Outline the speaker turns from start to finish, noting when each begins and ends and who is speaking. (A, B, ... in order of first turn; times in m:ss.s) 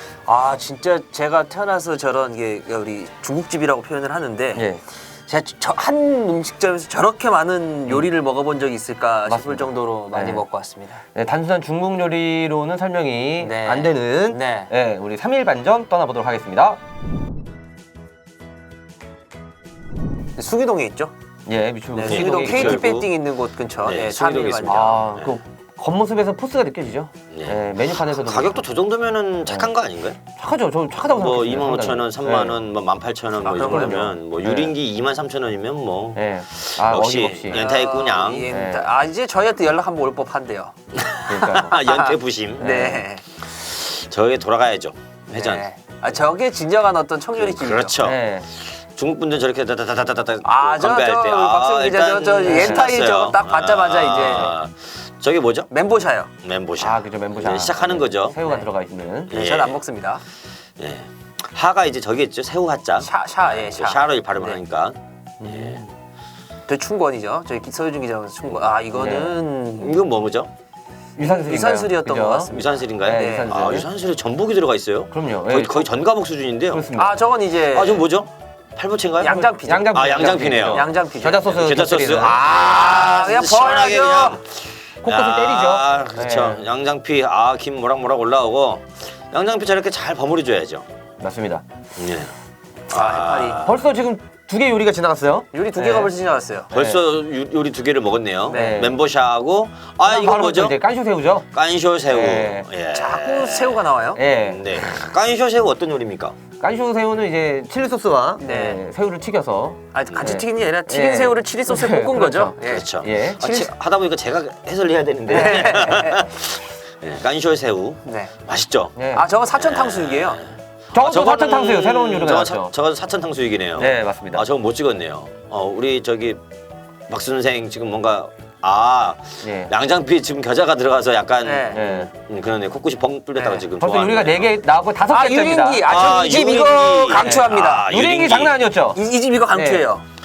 0:00.3-0:04.7 A
0:04.5-0:04.8 B
0:05.3-0:11.0 A
0:09.2-0:10.4 B
0:11.1-0:16.8 B
0:13.4-0:14.7 A
0:20.4-0:21.1 A
0:21.4-0:22.8 B
0:21.9-0:25.0 A
0:22.0-0:23.1 C
0:23.8-0:25.4 C
0:24.6-0:28.6 B
0:27.3-0:30.2 C
0:30.3-0:32.6 B
0:31.0-0:38.5 C
0:33.4-0:34.1 A
0:33.5-0:34.7 B
0:36.1-0:37.7 B
0:37.5-0:40.7 A
0:38.5-0:38.9 B
0:40.9-0:42.7 C
0:41.3-0:41.8 B
0:41.8-0:43.4 A
0:42.6-0:43.0 B
0:43.4-0:45.6 C
0:45.3-0:48.0 A
0:47.4-0:55.7 C
0:48.0-0:48.4 B
0:50.4-0:54.6 A
0:52.4-0:52.9 B
0:55.7-0:56.3 A
0:56.4-0:58.4 C
0:56.8-0:59.3 B
0:59.3-0:59.8 C
0:59.3-1:00.2 A
1:00.8-1:05.8 C
1:03.0-1:04.6 A
1:05.4-1:05.9 B
1:06.7-1:10.0 A
1:08.9-1:09.4 B
1:09.8-1:10.5 C
1:11.2-1:13.9 B
1:11.2-1:13.6 A
1:12.5-1:16.9 C
1:15.1-1:16.0 B
1:16.7-1:17.2 B
1:16.9-1:18.1 A
1:17.7-1:30.8 C
1:19.2-1:21.5 A
1:19.3-1:22.4 B
1:22.2-1:24.4 A
1:25.0-1:26.6 B
1:31.2-1:31.6 B
1:32.0-1:32.3 C
1:32.9-1:33.8 C
1:32.9-1:33.6 A
1:33.6-1:36.1 B
1:35.5-1:36.7 A
1:36.7-1:40.8 C
1:36.7-1:37.0 B
1:38.5-1:38.8 A
1:38.5-1:39.0 B
1:40.0-1:41.5 B
1:41.5-1:43.9 C
1:42.1-1:42.7 B
1:42.9-1:44.2 A
1:44.2-1:45.0 B
1:44.4-1:46.4 C
1:46.6-1:53.4 B
1:48.4-1:48.8 A
1:49.9-1:53.7 A
1:50.1-1:50.4 C
1:52.6-1:59.0 C
1:55.3-1:56.3 A
1:55.3-1:55.6 B
1:58.0-1:58.3 A
1:59.0-1:59.2 B
1:59.1-2:00.4 A
1:59.5-2:06.4 C
2:00.9-2:02.7 B
2:03.8-2:04.4 B
2:07.1-2:14.6 C
2:09.4-2:09.7 B
2:11.4-2:11.9 A
2:11.7-2:12.1 B
2:13.4-2:13.6 A
2:13.8-2:15.8 B
2:15.1-2:17.9 A
2:15.9-2:18.6 C
2:17.2-2:19.9 B
2:18.9-2:20.0 A